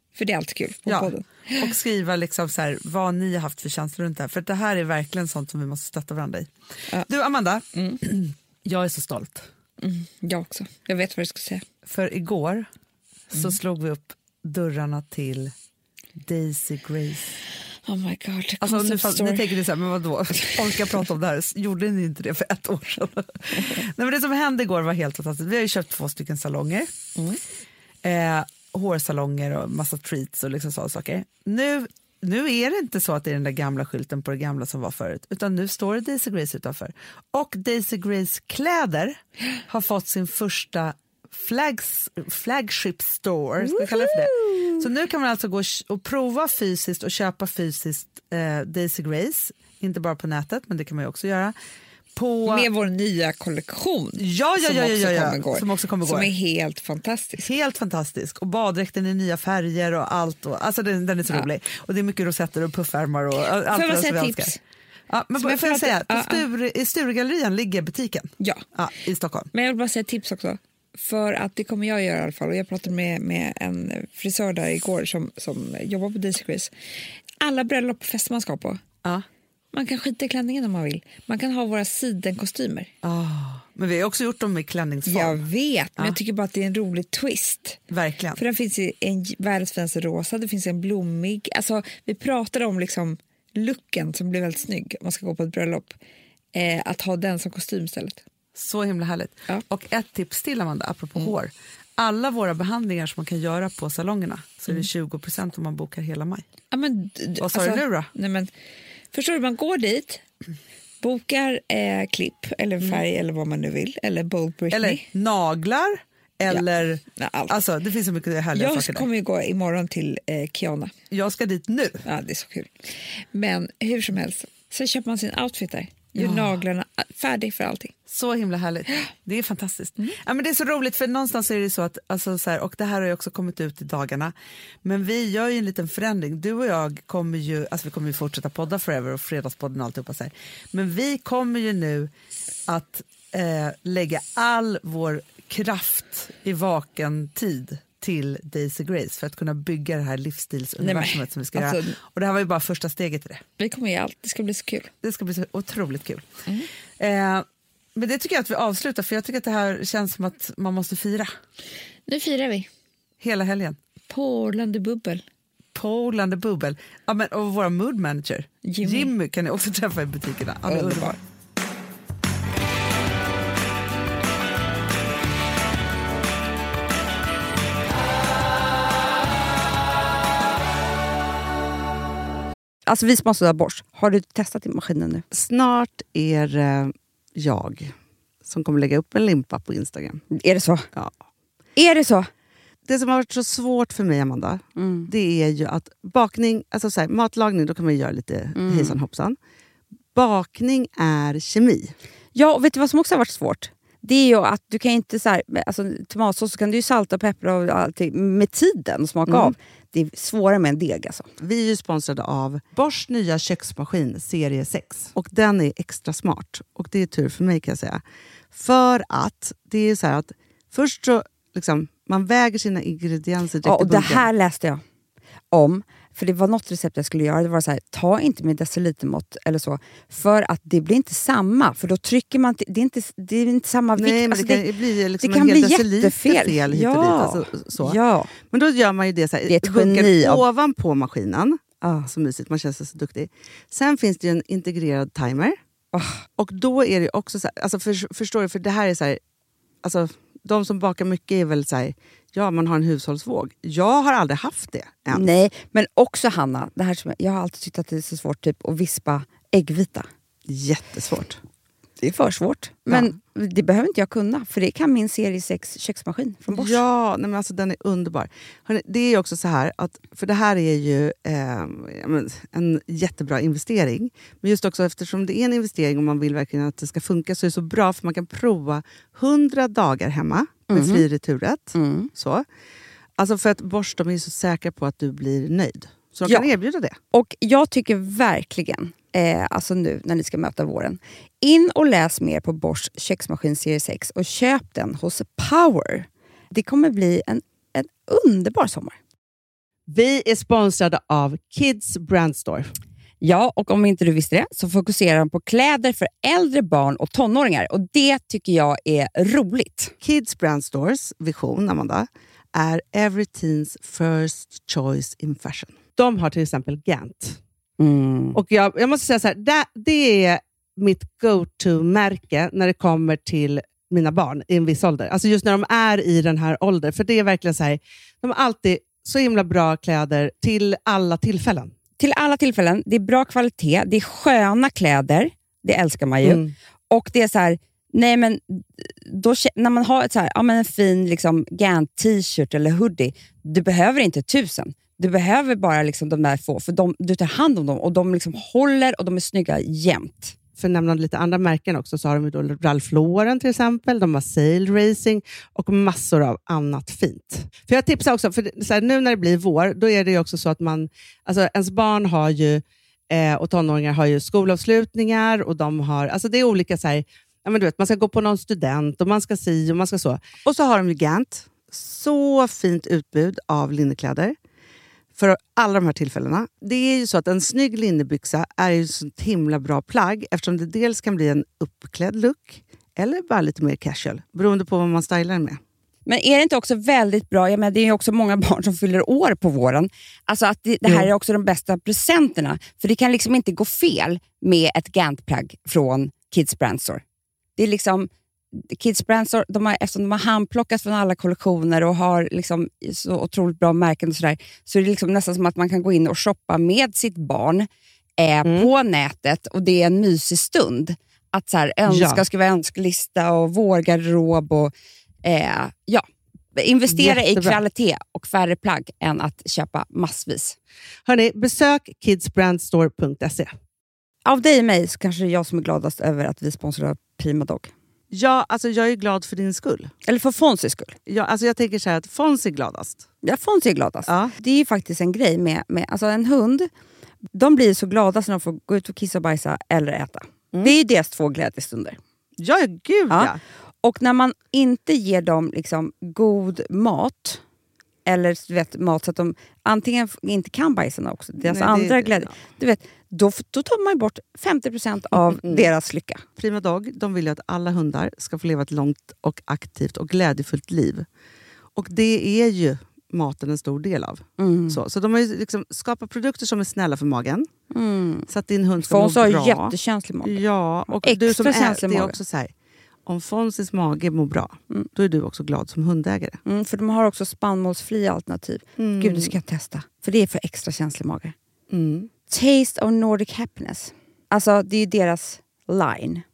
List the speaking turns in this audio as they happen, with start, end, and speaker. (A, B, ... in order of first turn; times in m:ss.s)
0:00.1-0:01.7 A
0:00.8-0:09.5 B
0:07.7-0:08.0 A
0:09.8-0:11.6 A
0:11.8-0:12.7 B
0:13.3-0:15.5 B
0:16.2-0:17.3 B
0:17.8-0:19.6 A
0:18.6-0:26.9 B
0:20.4-0:21.0 A
0:28.0-0:51.5 B
0:43.6-0:44.8 A
0:52.1-0:52.7 B
0:52.4-0:57.5 A
0:54.2-0:56.3 B
0:57.4-1:04.5 B
1:03.4-1:04.6 A
1:05.1-1:09.5 B
1:05.4-1:06.4 A
1:08.4-1:08.6 A
1:09.5-1:16.7 A
1:17.4-1:18.8 A
1:19.7-1:22.9 A
1:23.0-1:25.4 B
1:25.0-1:27.8 A
1:27.9-1:28.4 B
1:28.4-1:36.0 A
1:36.5-1:38.2 A
1:38.5-1:46.4 B
1:46.7-1:48.5 A
1:47.4-1:48.1 B
1:49.1-1:50.2 A
1:51.0-1:55.0 A
1:54.7-1:59.1 B
1:56.5-1:57.6 A
1:58.5-2:00.9 A
2:01.1-2:02.0 B
2:02.0-2:07.9 A
2:06.2-2:06.5 B
2:08.1-2:14.3 B
2:14.8-2:22.1 B
2:22.7-2:33.4 B
2:30.8-2:32.0 A
2:33.6-2:34.9 A
2:35.0-2:36.2 B
2:37.0-2:41.3 B
2:42.1-2:42.7 A
2:43.2-2:43.8 B
2:44.1-2:45.2 A
2:45.7-2:51.2 B
2:48.6-2:49.1 A
2:50.6-2:51.2 A
3:02.8-3:05.2 C
3:05.3-3:07.9 D
3:08.4-3:10.2 D
3:10.3-3:10.9 C
3:11.8-3:12.3 C
3:12.8-3:19.4 D
3:14.8-3:15.1 C
3:18.6-3:19.0 C
3:20.1-3:21.9 D
3:22.3-3:31.3 C
3:29.3-3:29.5 D
3:31.4-3:38.0 D
3:38.5-3:44.3 D
3:43.6-3:44.8 C
3:45.5-3:58.3 C
3:54.0-4:05.6 D
3:59.5-4:00.4 C
4:01.8-4:02.1 C
4:05.9-4:06.2 C
4:06.4-4:09.2 D
4:09.8-4:15.3 D
4:15.1-4:20.1 C
4:20.5-4:21.4 D
4:22.0-4:26.8 C
4:26.5-4:42.4 D
4:40.7-4:41.0 C
4:41.7-4:42.1 C
4:43.2-4:47.0 D
4:47.1-4:59.0 C
4:59.9-5:02.7 D
5:03.2-5:09.9 C
5:10.0-5:17.4 D
5:17.8-5:18.4 C
5:18.3-5:31.7 D
5:32.0-5:50.4 C
5:36.2-5:36.5 D
5:50.6-6:14.4 D
6:15.2-6:25.6 D
6:26.0-6:37.0 C
6:37.6-6:47.7 C
6:48.2-6:54.7 C
6:48.4-6:48.7 D
6:51.8-6:52.2 D
6:55.2-7:00.6 C
6:56.9-6:57.6 D
7:01.0-7:03.5 D
7:04.2-7:07.7 C
7:08.1-7:09.9 D
7:10.0-7:11.0 C
7:11.1-7:13.0 D
7:13.2-7:16.7 C
7:14.1-7:14.3 D
7:17.3-7:22.0 C
7:22.4-7:23.4 D
7:23.8-7:27.4 C
7:28.0-7:36.2 C
7:31.4-7:32.3 D
7:35.4-7:35.7 D
7:36.4-7:41.0 D
7:41.7-7:47.5 D
7:44.4-7:44.8 C
7:47.7-7:48.3 C
7:48.3-7:52.5 D
7:48.9-7:52.2 C
7:53.0-7:56.4 D
7:56.4-8:01.3 C
7:58.8-7:59.3 D
8:01.7-8:02.1 D
8:02.3-8:06.2 C